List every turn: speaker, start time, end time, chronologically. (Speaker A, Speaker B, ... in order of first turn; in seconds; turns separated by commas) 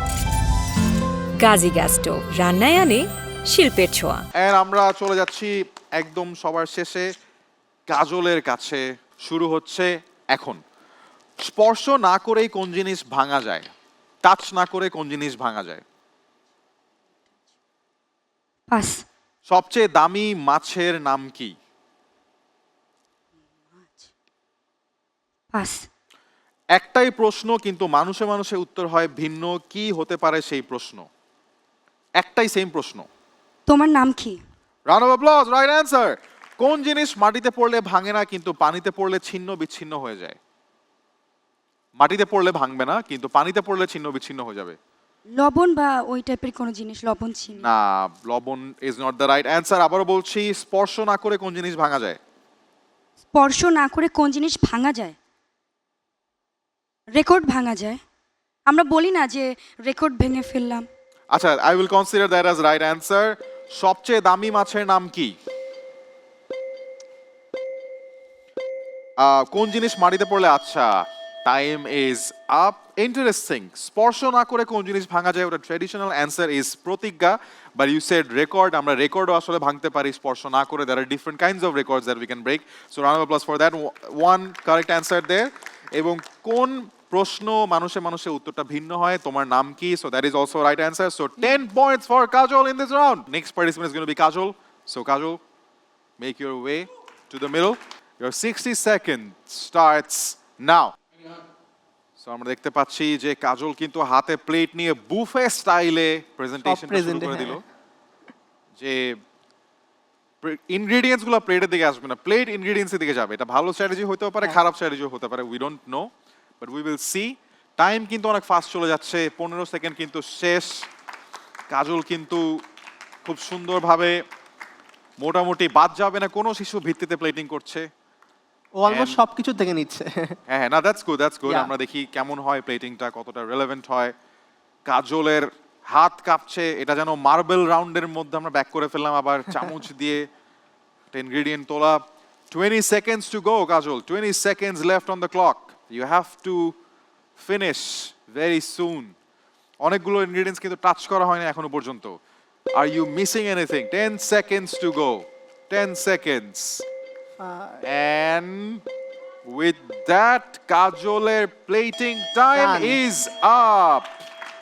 Speaker A: 1.4-4.2, Speaker B: 4.4-7.1, Speaker B: 7.9-10.6, Speaker B: 11.4-13.7, Speaker B: 14.2-15.8, Speaker C: 18.7-19.0, Speaker B: 19.5-21.5, Speaker C: 25.6-25.9, Speaker B: 26.8-31.1, Speaker B: 32.2-33.1, Speaker C: 33.7-34.4, Speaker B: 34.9-40.4, Speaker B: 42.0-44.8, Speaker C: 45.3-47.7, Speaker B: 47.6-52.2, Speaker C: 53.3-55.1, Speaker C: 57.1-58.0, Speaker C: 58.7-60.9, Speaker B: 61.3-65.3, Speaker B: 69.2-95.4, Speaker B: 96.2-100.9, Speaker B: 102.2-107.6, Speaker D: 106.6-107.6, Speaker B: 108.8-109.2, Speaker B: 110.4-116.1, Speaker B: 116.6-120.7, Speaker B: 121.7-122.4, Speaker B: 123.2-124.2, Speaker B: 125.2-127.8, Speaker D: 128.8-130.4, Speaker B: 128.9-129.2, Speaker B: 130.5-134.1, Speaker D: 131.5-131.7, Speaker B: 134.9-140.3, Speaker B: 141.1-146.8, Speaker B: 147.4-149.1, Speaker B: 149.8-152.2, Speaker B: 152.8-156.8, Speaker D: 157.4-157.8, Speaker B: 157.8-158.8, Speaker B: 159.5-164.1, Speaker D: 162.5-163.0